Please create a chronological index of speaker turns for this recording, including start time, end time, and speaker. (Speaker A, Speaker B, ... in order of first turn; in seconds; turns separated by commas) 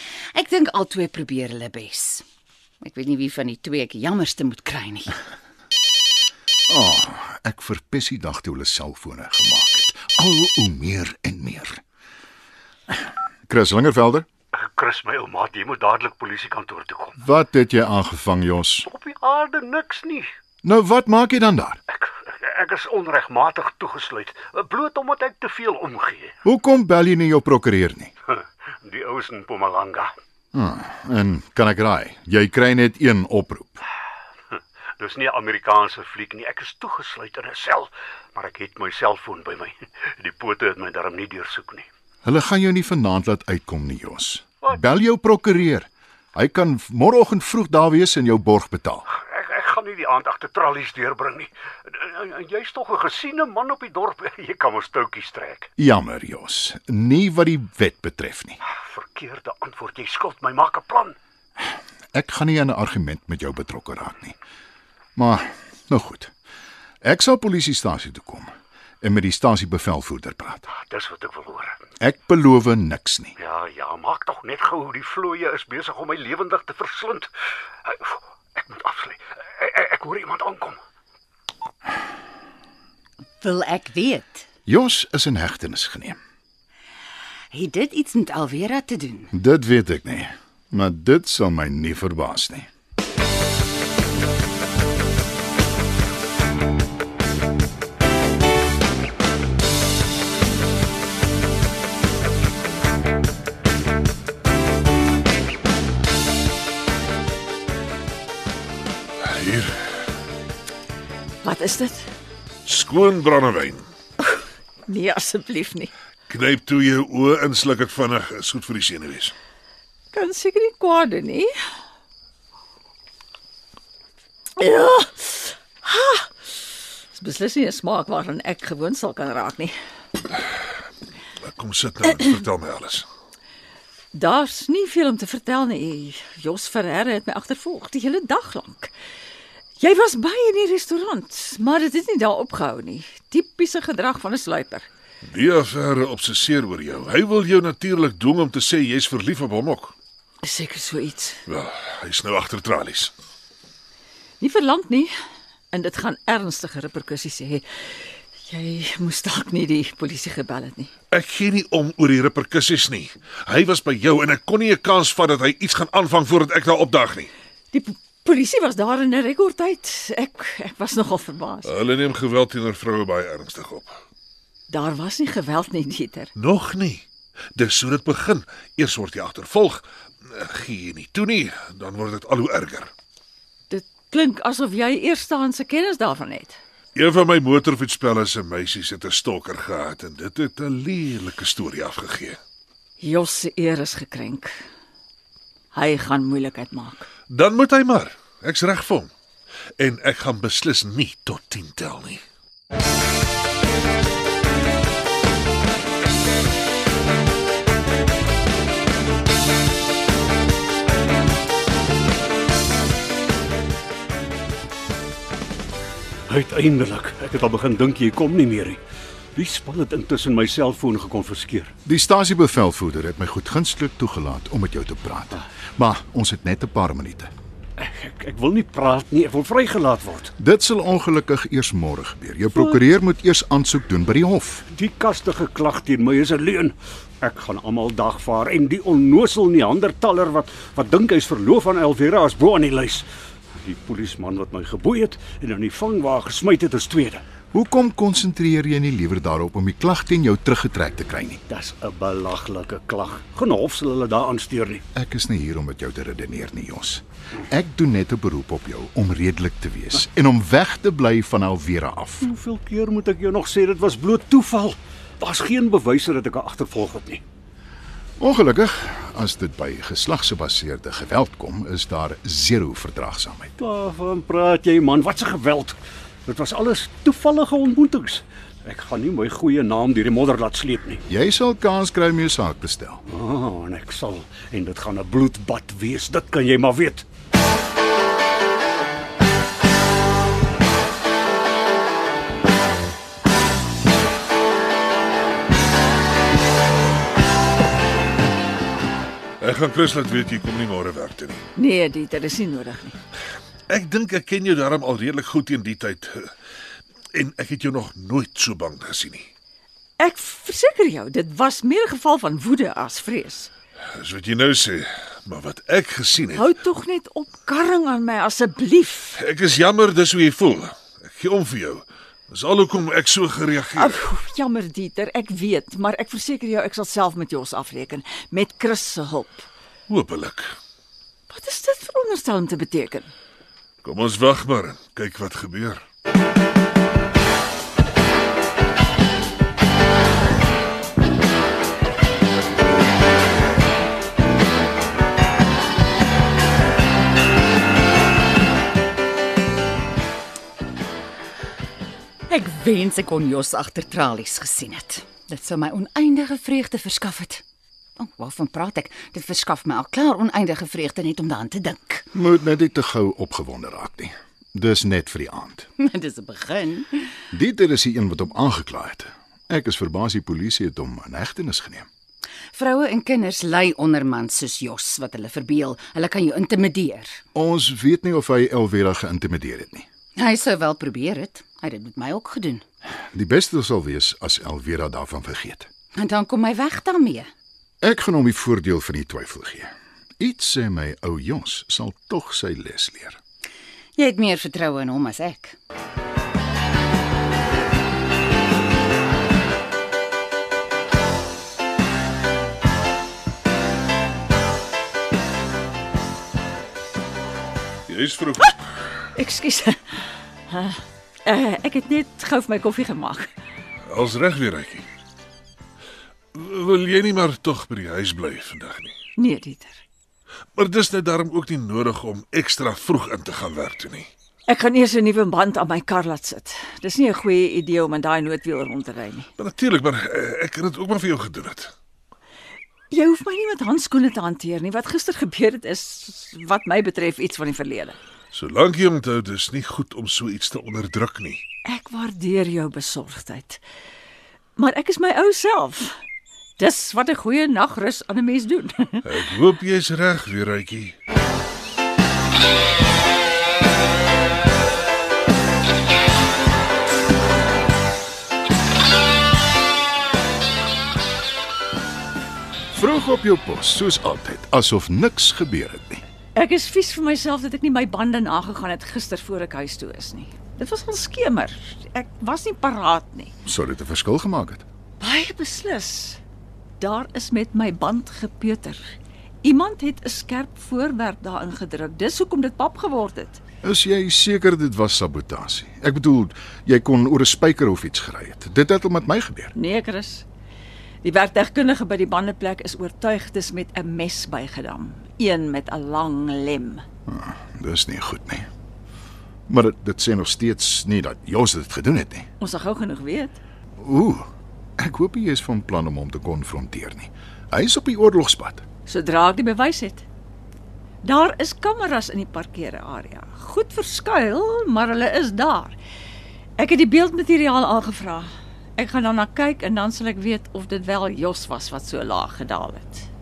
Speaker A: 0.3-2.2, Speaker A: 2.8-5.2, Speaker B: 6.7-11.8, Speaker B: 13.5-14.3, Speaker C: 14.5-17.2, Speaker B: 17.2-18.9, Speaker C: 18.9-20.3, Speaker B: 20.6-21.8, Speaker C: 21.9-26.3, Speaker B: 26.4-28.1, Speaker C: 28.3-30.1, Speaker B: 30.5-33.8, Speaker C: 34.5-41.9, Speaker B: 42.2-49.1, Speaker C: 49.1-55.7, Speaker B: 55.8-58.6, Speaker C: 58.9-61.2, Speaker B: 62.1-64.4, Speaker B: 65.2-66.3, Speaker B: 67.0-68.5, Speaker B: 69.0-70.7, Speaker C: 70.7-71.8, Speaker B: 72.0-73.3, Speaker C: 73.4-77.3, Speaker C: 77.8-80.8, Speaker A: 83.4-84.5, Speaker B: 84.7-86.2, Speaker A: 87.5-89.3, Speaker B: 89.3-92.7, Speaker D: 109.2-110.0, Speaker E: 111.4-112.1, Speaker D: 112.7-113.9, Speaker E: 114.2-115.9, Speaker D: 116.3-119.3, Speaker E: 120.1-121.5, Speaker E: 124.6-126.3, Speaker E: 127.1-129.7, Speaker D: 131.4-133.1, Speaker E: 134.1-138.9, Speaker E: 139.8-144.9, Speaker D: 145.2-149.9, Speaker E: 150.4-151.4, Speaker D: 151.5-153.1, Speaker E: 154.4-155.1, Speaker E: 155.7-160.9, Speaker D: 161.1-167.3, Speaker E: 167.7-171.7, Speaker D: 171.7-173.9, Speaker E: 174.7-176.3, Speaker D: 176.4-177.1, Speaker D: 177.6-182.9, Speaker E: 183.7-186.6, Speaker D: 186.9-192.4, Speaker E: 193.0-194.5, Speaker E: 195.7-197.1, Speaker D: 197.3-199.1, Speaker D: 199.8-202.2, Speaker C: 216.3-218.8, Speaker C: 219.4-221.7, Speaker B: 221.9-227.3, Speaker C: 227.8-230.3, Speaker B: 230.4-234.7, Speaker C: 234.7-247.2, Speaker B: 247.5-251.4, Speaker C: 251.5-254.8, Speaker B: 254.9-262.3, Speaker C: 262.2-267.2, Speaker B: 268.2-273.5, Speaker C: 273.6-281.0, Speaker B: 281.1-283.0, Speaker C: 283.1-287.1, Speaker D: 299.4-301.4, Speaker E: 301.6-303.0, Speaker D: 303.7-306.3, Speaker D: 307.1-309.3, Speaker E: 310.0-313.5, Speaker D: 313.9-316.5, Speaker E: 316.3-319.2, Speaker D: 319.2-324.0, Speaker E: 323.7-329.5, Speaker D: 329.9-330.6, Speaker E: 331.3-333.1, Speaker D: 333.8-335.8, Speaker A: 352.3-357.4, Speaker A: 358.0-362.1, Speaker B: 362.1-365.7, Speaker A: 365.8-367.2, Speaker B: 367.3-371.9, Speaker A: 372.5-377.2, Speaker B: 377.4-379.9, Speaker A: 380.2-382.6, Speaker B: 383.1-385.7, Speaker A: 386.0-387.3, Speaker B: 387.8-393.2, Speaker A: 394.0-395.6, Speaker D: 407.9-409.0, Speaker E: 409.1-413.3, Speaker D: 413.9-414.9, Speaker D: 416.3-418.9, Speaker E: 419.2-419.8, Speaker D: 420.6-424.1, Speaker E: 424.5-429.3, Speaker D: 429.4-431.7, Speaker E: 432.9-438.0, Speaker D: 438.3-441.4, Speaker E: 441.6-443.6, Speaker E: 444.6-446.0, Speaker E: 446.6-449.1, Speaker D: 449.1-451.0, Speaker B: 462.7-466.0, Speaker E: 466.4-473.3, Speaker B: 473.4-474.6, Speaker E: 475.0-476.2, Speaker E: 476.8-478.8, Speaker E: 479.4-483.4, Speaker B: 483.6-489.5, Speaker E: 489.6-490.3, Speaker E: 491.0-496.8, Speaker B: 497.1-498.5, Speaker B: 499.5-502.3, Speaker E: 502.4-503.4, Speaker B: 503.8-504.3, Speaker B: 504.8-508.6, Speaker E: 508.9-510.0, Speaker E: 511.0-515.8, Speaker E: 516.6-523.1